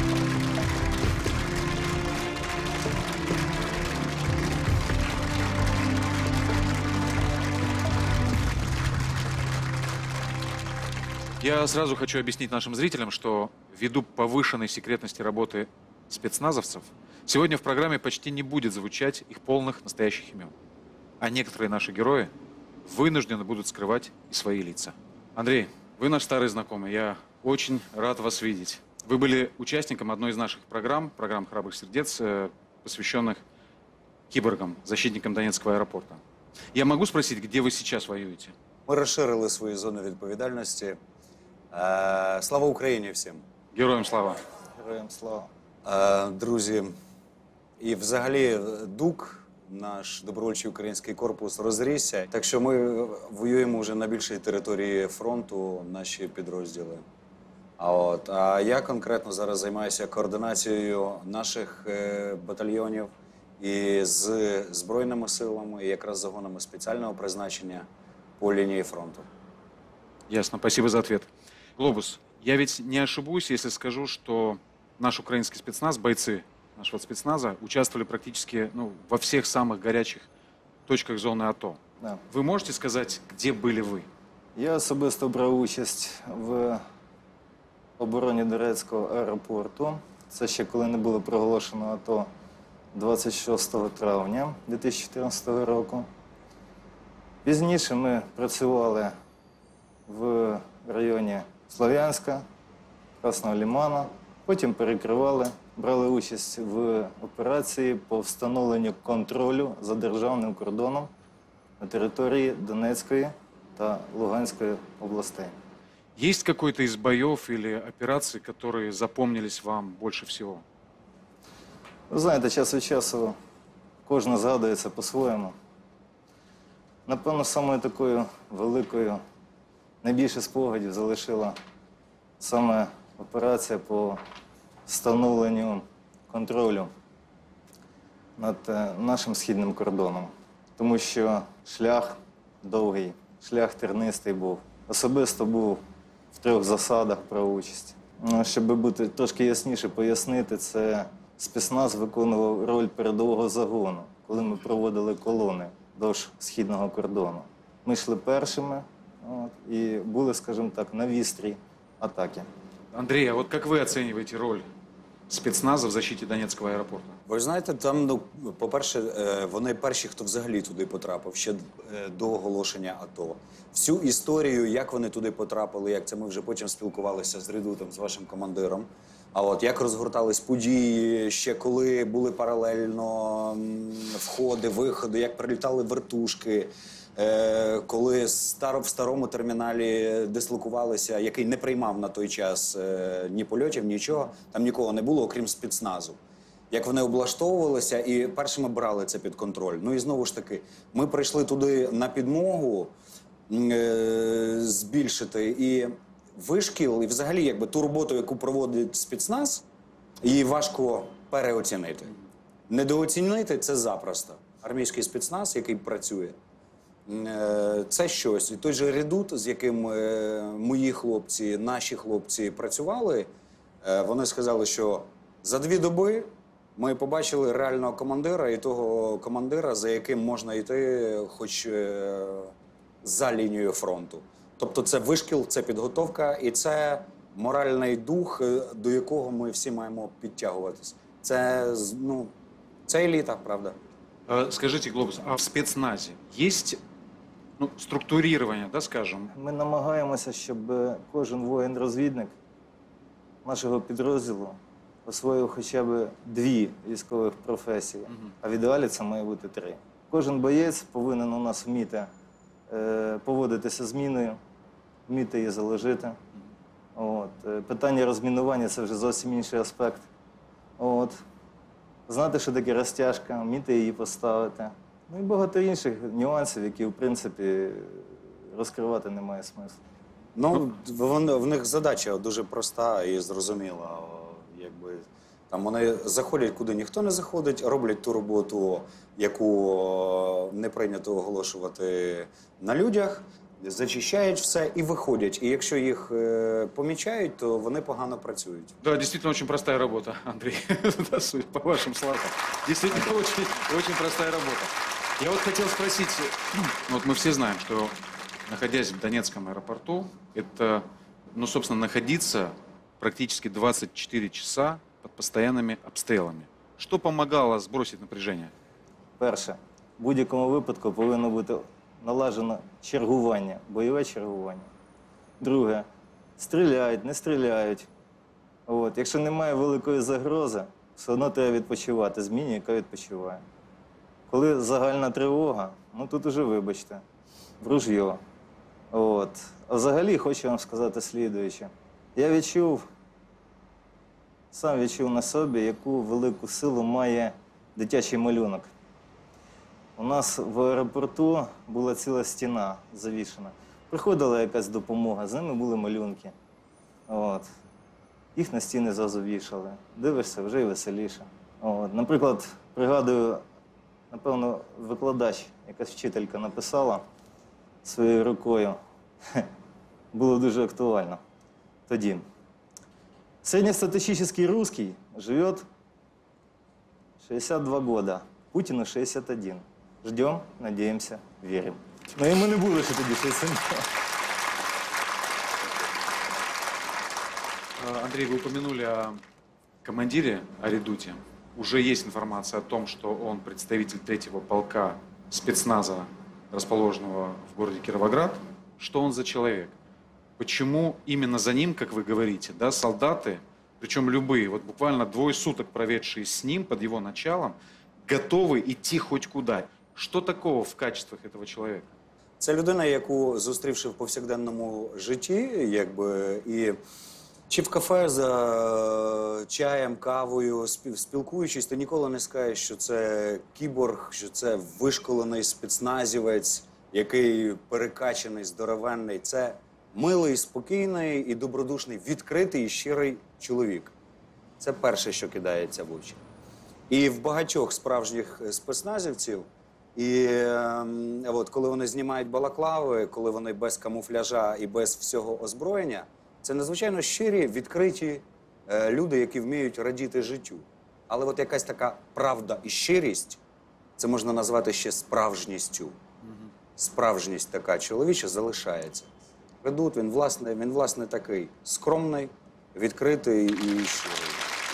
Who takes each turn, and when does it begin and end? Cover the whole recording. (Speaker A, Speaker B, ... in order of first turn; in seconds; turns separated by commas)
Speaker A: 11.4-20.5, Speaker A: 21.2-22.3, Speaker A: 22.9-33.4, Speaker A: 34.3-36.2, Speaker A: 36.7-38.5, Speaker B: 38.9-41.0, Speaker B: 41.7-43.4, Speaker A: 43.7-44.4, Speaker C: 44.8-45.5, Speaker B: 45.8-46.9, Speaker B: 47.8-57.0, Speaker B: 57.8-67.9, Speaker B: 68.4-69.3, Speaker A: 70.3-80.3, Speaker A: 80.9-84.1, Speaker C: 84.6-86.8, Speaker C: 88.0-92.3, Speaker C: 92.9-96.1, Speaker C: 97.4-99.2, Speaker C: 100.1-102.5, Speaker C: 103.2-111.1, Speaker C: 111.8-115.5, Speaker A: 116.2-120.6, Speaker C: 122.1-123.4, Speaker C: 124.1-125.6, Speaker C: 127.1-129.2, Speaker C: 130.0-131.6, Speaker C: 132.4-134.2, Speaker C: 134.9-136.9, Speaker C: 138.4-145.8, Speaker C: 146.3-162.5, Speaker A: 162.9-164.7, Speaker A: 165.3-167.2, Speaker B: 167.3-196.2, Speaker B: 196.7-202.9, Speaker B: 203.5-209.6, Speaker B: 210.2-212.1, Speaker B: 212.7-216.4, Speaker B: 217.1-223.3, Speaker B: 223.8-242.3, Speaker B: 242.9-243.8, Speaker A: 244.3-246.8, Speaker A: 247.6-249.3, Speaker C: 249.3-252.3, Speaker C: 253.4-262.1, Speaker A: 258.1-258.3, Speaker C: 262.7-264.4, Speaker C: 265.1-266.2, Speaker C: 266.9-270.1, Speaker C: 270.8-271.2, Speaker C: 272.1-279.8, Speaker B: 280.4-298.8, Speaker A: 298.8-308.0, Speaker A: 308.5-318.5, Speaker C: 319.2-324.7, Speaker C: 325.4-325.9, Speaker C: 326.4-327.9, Speaker C: 328.7-333.4, Speaker C: 334.3-337.0, Speaker C: 337.6-338.2, Speaker C: 338.9-342.9, Speaker C: 344.5-348.7, Speaker C: 350.0-356.3, Speaker C: 357.1-357.5, Speaker C: 358.4-363.4, Speaker C: 364.1-367.0, Speaker C: 367.8-368.8, Speaker C: 370.1-371.2, Speaker C: 371.9-372.2, Speaker C: 373.4-375.7, Speaker C: 377.2-383.8, Speaker A: 387.8-389.2, Speaker A: 389.8-399.8, Speaker A: 400.4-411.9, Speaker B: 412.4-416.8, Speaker B: 417.5-433.9, Speaker B: 434.6-436.2, Speaker B: 436.9-453.4, Speaker B: 454.0-456.0, Speaker A: 456.2-456.5, Speaker B: 456.8-459.1, Speaker B: 459.6-464.4